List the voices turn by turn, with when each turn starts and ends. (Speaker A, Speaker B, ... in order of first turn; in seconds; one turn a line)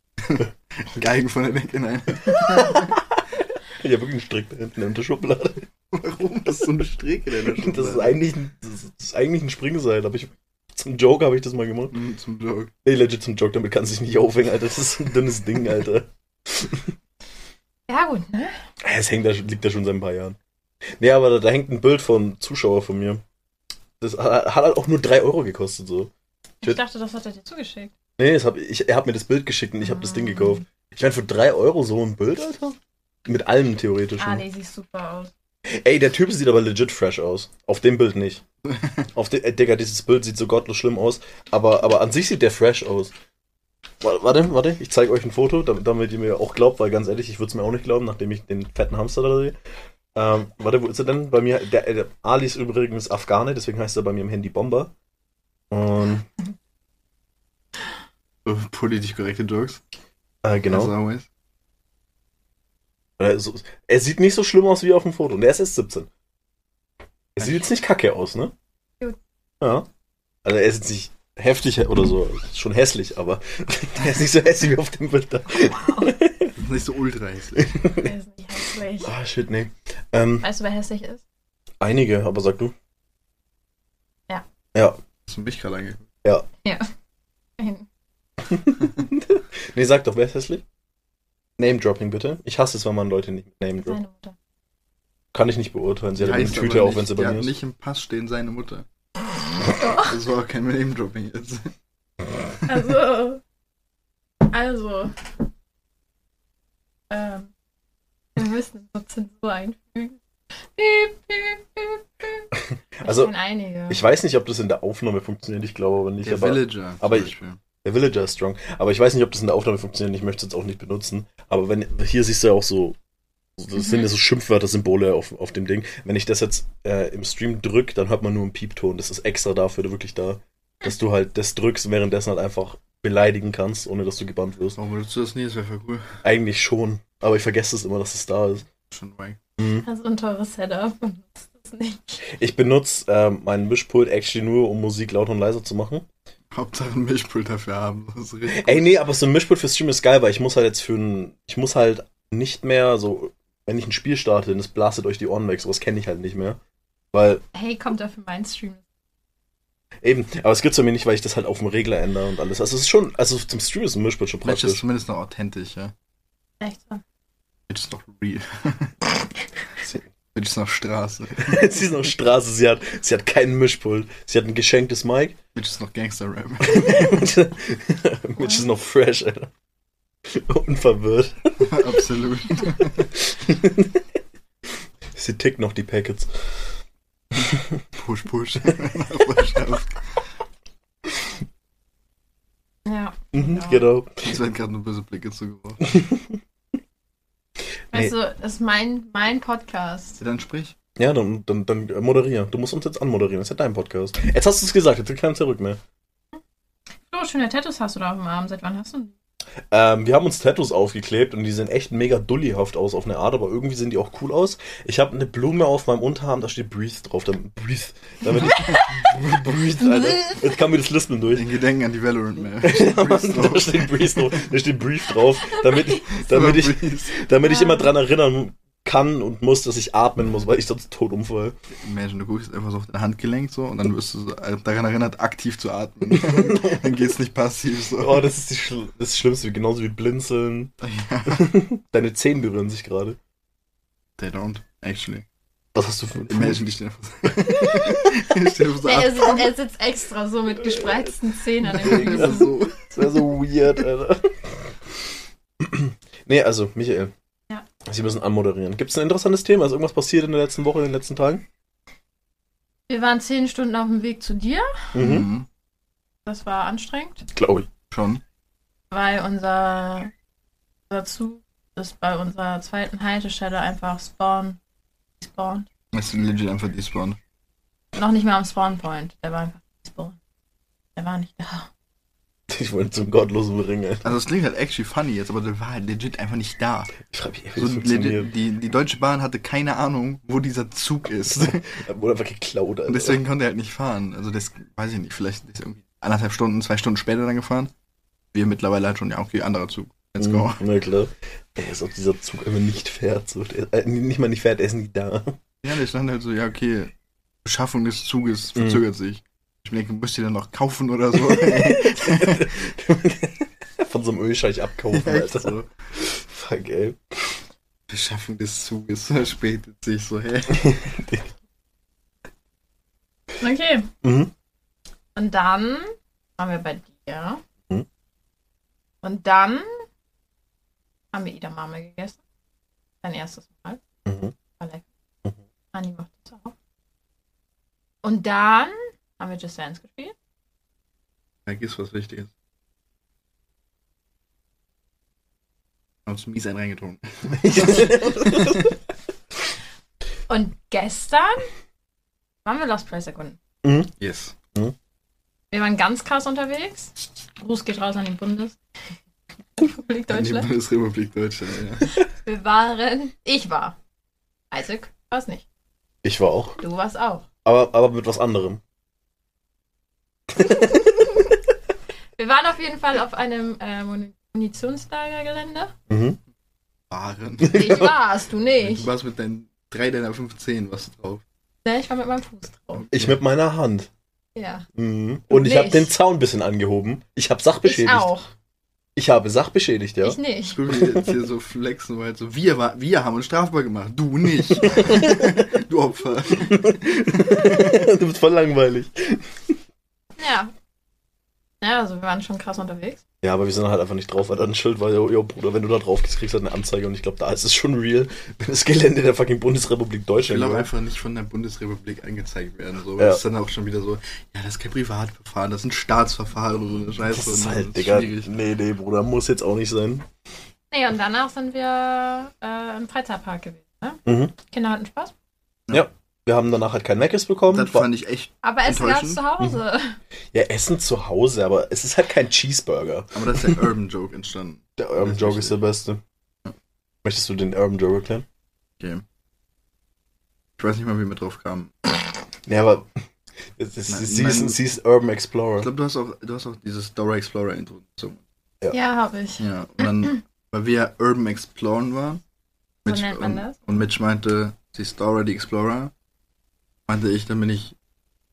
Speaker A: 0.2-3.0
Speaker B: 2.3-5.7
Speaker A: 5.9-8.2
Speaker B: 7.4-11.9
Speaker A: 11.9-12.7
Speaker B: 12.8-16.9
Speaker C: 17.9-18.6
Speaker B: 18.8-20.4
Speaker B: 21.0-23.2
Speaker B: 24.0-26.1
Speaker C: 26.6-27.9
Speaker B: 28.2-34.4
Speaker C: 29.9-30.6
Speaker C: 34.2-35.3
Speaker B: 35.7-38.4
Speaker A: 38.6-39.1
Speaker B: 39.1-43.1
Speaker B: 44.0-49.6
Speaker B: 50.1-54.9
Speaker B: 55.7-56.3
Speaker A: 58.4-59.8
Speaker B: 60.4-60.9
Speaker A: 60.7-61.3
Speaker B: 63.2-66.1
Speaker B: 67.3-68.5
Speaker A: 67.4-67.7
Speaker B: 69.6-69.9
Speaker B: 70.4-76.5
Speaker C: 75.6-76.1
Speaker A: 76.5-77.8
Speaker B: 77.6-78.1
Speaker C: 77.9-79.1
Speaker B: 79.0-80.5
Speaker C: 80.4-81.2
Speaker B: 81.8-82.7
Speaker A: 85.3-86.1
Speaker C: 86.6-86.9
Speaker C: 87.6-87.9
Speaker B: 88.6-90.6
Speaker B: 91.6-94.0
Speaker C: 93.8-94.3
Speaker B: 95.3-97.5
Speaker A: 96.2-98.8
Speaker C: 99.7-100.1
Speaker A: 100.0-101.7
Speaker C: 102.7-103.4
Speaker C: 104.4-105.2
Speaker C: 107.1-107.5
Speaker C: 108.3-110.2
Speaker C: 110.8-112.5
Speaker B: 112.7-113.3
Speaker C: 113.0-114.0
Speaker B: 113.9-117.3
Speaker A: 116.2-117.6
Speaker B: 117.8-123.0
Speaker B: 123.6-134.8
Speaker C: 123.8-124.1
Speaker A: 134.8-136.2
Speaker B: 136.2-138.7
Speaker A: 138.9-139.4
Speaker B: 139.6-139.8
Speaker C: 139.8-142.2
Speaker B: 142.2-146.1
Speaker A: 146.5-149.0
Speaker B: 148.5-156.6
Speaker B: 157.1-157.4
Speaker C: 157.5-158.8
Speaker B: 160.0-164.8
Speaker A: 164.4-165.9
Speaker C: 166.6-167.0
Speaker A: 167.7-168.9
Speaker A: 170.3-171.7
Speaker B: 171.4-175.3
Speaker A: 175.5-176.9
Speaker B: 176.6-179.5
Speaker C: 178.4-178.7
Speaker B: 180.2-181.9
Speaker A: 181.6-183.1
Speaker B: 183.1-184.0
Speaker B: 185.1-186.3
Speaker B: 187.3-187.8
Speaker A: 187.9-190.0
Speaker C: 192.8-193.8
Speaker B: 193.3-194.3
Speaker A: 194.2-195.9
Speaker B: 195.9-196.4
Speaker C: 197.9-200.2
Speaker A: 200.2-200.8
Speaker B: 201.0-205.8
Speaker C: 207.1-209.1
Speaker B: 209.7-221.4
Speaker C: 219.8-220.4
Speaker A: 221.3-224.4
Speaker B: 222.6-231.6
Speaker C: 225.6-225.9
Speaker A: 226.1-227.1
Speaker C: 227.4-227.9
Speaker A: 231.8-238.2
Speaker B: 236.1-237.1
Speaker B: 238.0-240.7
Speaker A: 240.8-241.5
Speaker B: 241.3-243.2
Speaker A: 244.2-245.2
Speaker B: 245.7-246.7
Speaker A: 246.3-249.4
Speaker B: 247.2-248.2
Speaker C: 248.8-252.6
Speaker B: 250.6-251.1
Speaker B: 251.6-254.8
Speaker A: 251.7-252.9
Speaker B: 255.6-257.1
Speaker B: 257.8-261.4
Speaker C: 262.9-264.9
Speaker B: 264.9-265.3
Speaker A: 264.9-265.5
Speaker C: 266.2-267.3
Speaker B: 267.3-267.7
Speaker A: 267.9-268.2
Speaker C: 268.9-270.1
Speaker C: 270.9-274.6
Speaker C: 275.2-275.7
Speaker A: 275.9-277.2
Speaker C: 277.9-280.1
Speaker C: 280.9-281.7
Speaker B: 282.5-284.1
Speaker A: 284.0-287.0
Speaker B: 287.0-288.3
Speaker A: 287.6-291.7
Speaker B: 291.4-293.2
Speaker A: 292.9-297.7
Speaker A: 298.3-300.6
Speaker B: 300.2-305.4
Speaker A: 305.6-306.9
Speaker A: 307.4-312.5
Speaker B: 308.6-308.8
Speaker B: 311.1-317.4
Speaker A: 314.9-315.7
Speaker A: 317.9-320.7
Speaker B: 320.5-321.3
Speaker C: 323.4-323.9
Speaker B: 324.0-324.3
Speaker C: 325.1-327.4
Speaker C: 329.0-329.8
Speaker C: 331.1-332.2
Speaker C: 333.0-333.8
Speaker B: 334.1-334.3
Speaker C: 334.6-334.8
Speaker C: 335.7-336.5
Speaker C: 338.0-340.1
Speaker A: 341.4-342.3
Speaker A: 346.1-348.7
Speaker B: 347.4-348.7
Speaker C: 350.3-351.5
Speaker C: 352.4-353.4
Speaker B: 353.6-353.9
Speaker A: 354.0-354.4
Speaker C: 355.5-358.6
Speaker C: 359.6-360.5
Speaker A: 360.1-361.9
Speaker C: 362.1-363.8
Speaker C: 364.5-365.4
Speaker B: 366.0-366.6
Speaker C: 366.6-367.2
Speaker B: 367.4-368.6
Speaker B: 370.3-371.0
Speaker C: 372.2-375.7
Speaker B: 375.9-376.2
Speaker A: 376.9-377.9
Speaker B: 377.4-377.9
Speaker C: 377.5-378.9
Speaker A: 378.6-381.2
Speaker C: 381.6-382.9
Speaker A: 382.8-383.2
Speaker B: 382.9-383.9
Speaker C: 384.4-384.7
Speaker B: 384.8-388.1
Speaker C: 385.3-385.9
Speaker C: 387.6-388.3
Speaker B: 388.9-390.2
Speaker C: 390.0-390.6
Speaker A: 390.4-397.8
Speaker B: 390.7-391.1
Speaker B: 394.6-395.5
Speaker B: 396.4-399.6
Speaker C: 400.2-400.5
Speaker C: 401.6-403.0
Speaker B: 403.2-410.7
Speaker A: 410.2-418.3
Speaker B: 417.1-420.1
Speaker C: 420.7-425.1
Speaker B: 424.1-424.3
Speaker B: 425.7-427.9
Speaker A: 427.5-429.2
Speaker C: 428.4-430.0
Speaker B: 430.3-433.6
Speaker A: 433.1-435.6
Speaker B: 434.8-436.0
Speaker B: 437.0-438.2
Speaker A: 440.6-441.7
Speaker B: 442.5-442.9
Speaker B: 443.6-445.7
Speaker A: 443.9-444.6
Speaker A: 445.6-448.2
Speaker C: 448.7-449.4
Speaker A: 449.4-452.2
Speaker A: 452.8-455.9
Speaker C: 452.9-453.6
Speaker A: 456.9-457.8